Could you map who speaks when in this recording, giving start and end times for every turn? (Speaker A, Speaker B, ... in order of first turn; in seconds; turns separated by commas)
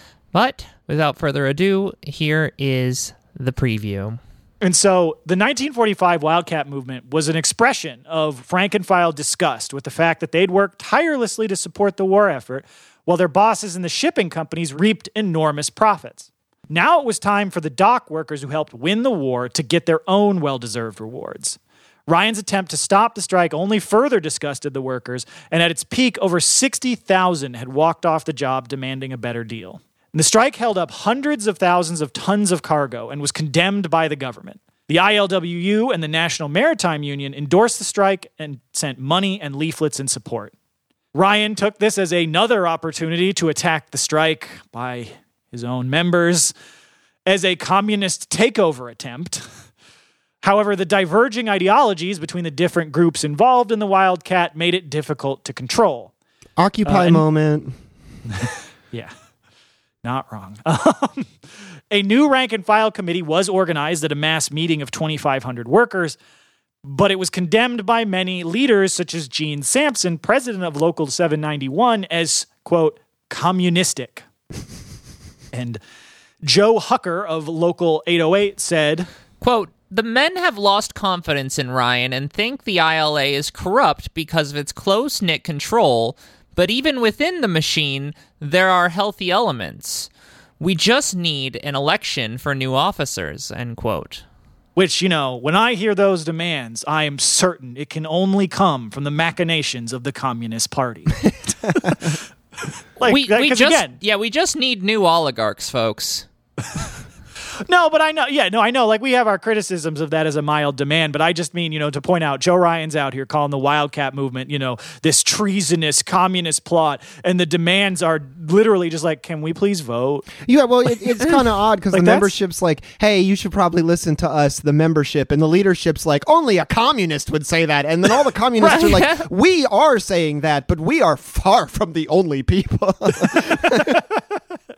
Speaker A: 0.3-4.2, Speaker B: 4.6-40.5, Speaker B: 41.1-46.5, Speaker B: 47.2-49.5, Speaker B: 50.4-56.1, Speaker C: 56.6-57.8, Speaker B: 56.9-57.2, Speaker B: 58.3-59.1, Speaker B: 60.0-61.3, Speaker B: 61.9-66.2, Speaker B: 66.8-74.2, Speaker B: 75.5-75.8, Speaker B: 76.4-79.1, Speaker A: 79.4-94.2, Speaker B: 94.8-102.2, Speaker B: 103.0-104.0, Speaker A: 103.0-106.3, Speaker B: 107.7-120.3, Speaker C: 120.4-134.0, Speaker B: 121.9-122.3, Speaker A: 128.6-129.2, Speaker B: 133.6-134.2